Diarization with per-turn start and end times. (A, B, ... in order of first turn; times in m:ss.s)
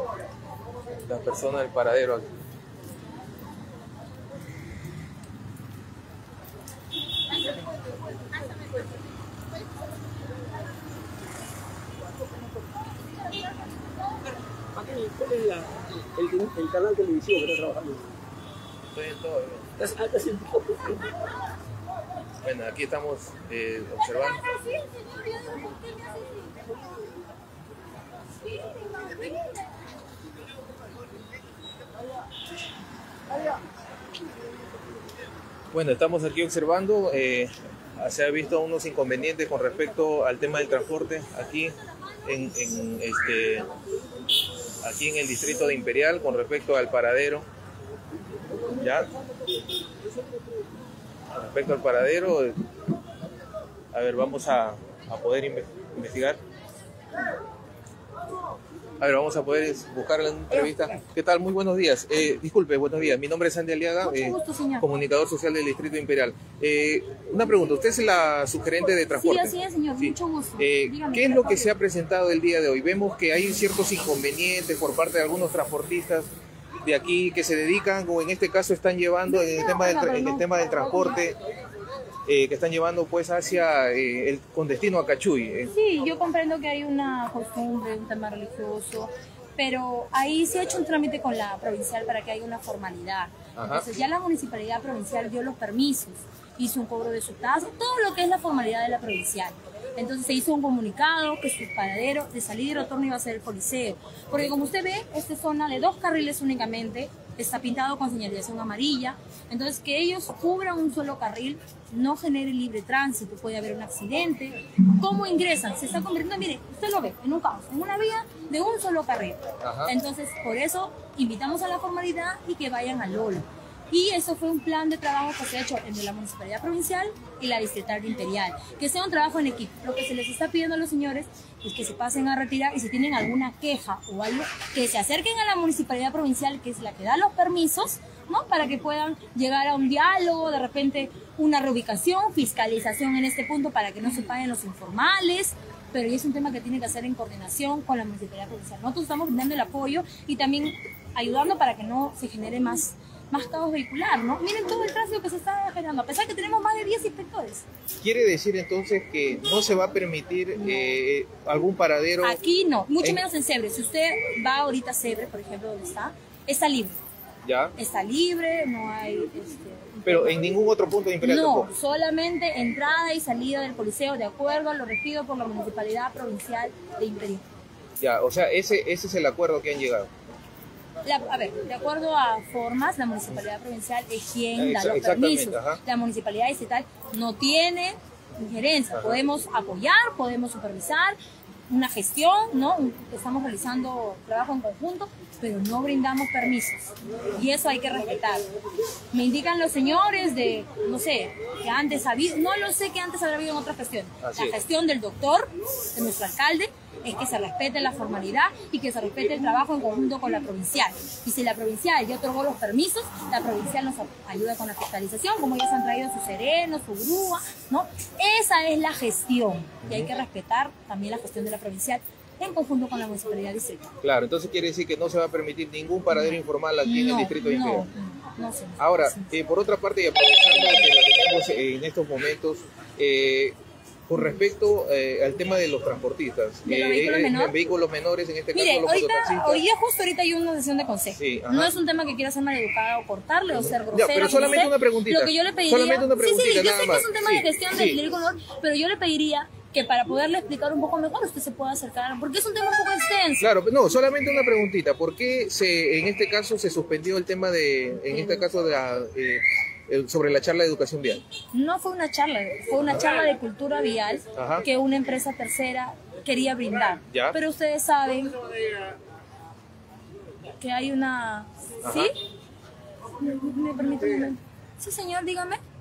0:01.1-0:02.3 A
0:14.8-0:18.0 B
0:18.9-0:19.7 A
0:19.8-0:21.1 B
0:22.4-0:24.4 A
0:35.7-0:43.7 A
0:44.8-0:47.5 A
0:48.7-0:49.1 A
0:51.3-0:52.6 A
0:53.9-0:56.4 A
0:59.0-1:16.3 A
1:04.0-1:04.9 C
1:09.2-1:11.7 C
1:16.8-1:21.4 A
1:19.3-1:20.8 C
1:22.3-1:25.7 A
1:25.7-2:37.6 C
1:33.6-1:33.8 A
1:59.6-1:59.9 A
2:38.0-2:42.4 A
2:42.2-2:47.0 C
2:47.4-2:47.7 A
2:47.8-2:50.4 C
2:50.1-2:51.7 A
2:51.2-2:57.5 C
2:58.0-3:00.1 A
3:01.0-3:11.2 C
3:04.6-3:05.8 A
3:08.9-3:09.2 A
3:11.7-3:18.4 C
3:19.1-3:43.9 C
3:24.2-3:24.6 A
3:44.0-3:47.9 A
3:46.8-3:49.3 C
3:48.8-3:53.6 A
3:54.1-3:59.6 A
3:56.6-3:57.5 C
3:58.5-4:13.5 C
4:01.2-4:01.8 A
4:03.6-4:08.0 A
4:13.4-4:21.2 A
4:18.1-4:18.5 C
4:21.5-4:28.4 C
4:24.4-4:24.6 A
4:27.1-4:27.4 A
4:30.6-4:32.2 C
4:31.8-4:32.1 A
4:33.2-4:35.6 C